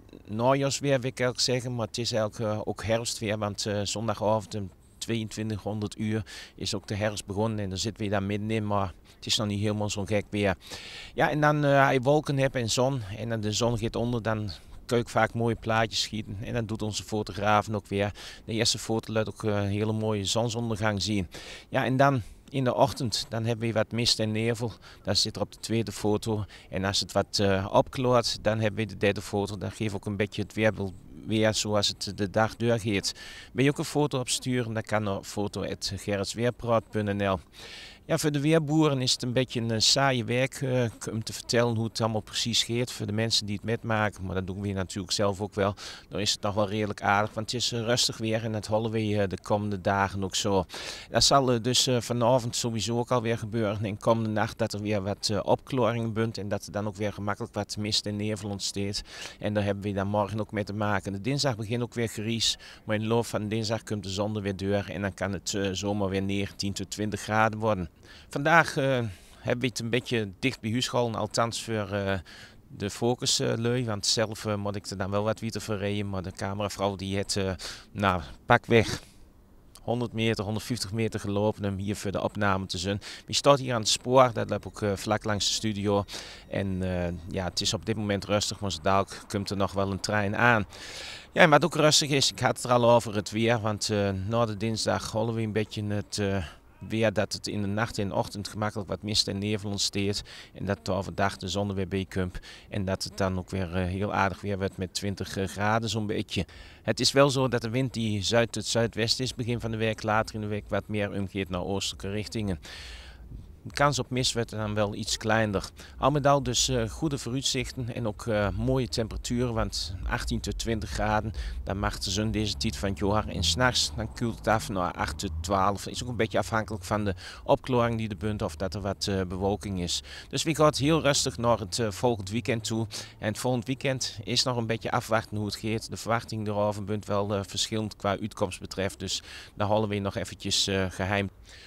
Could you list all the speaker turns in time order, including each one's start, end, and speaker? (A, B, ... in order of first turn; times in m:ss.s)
0:00.2-0:37.4 A
0:38.1-1:19.1 A
1:19.8-1:52.6 A
1:53.6-2:21.3 A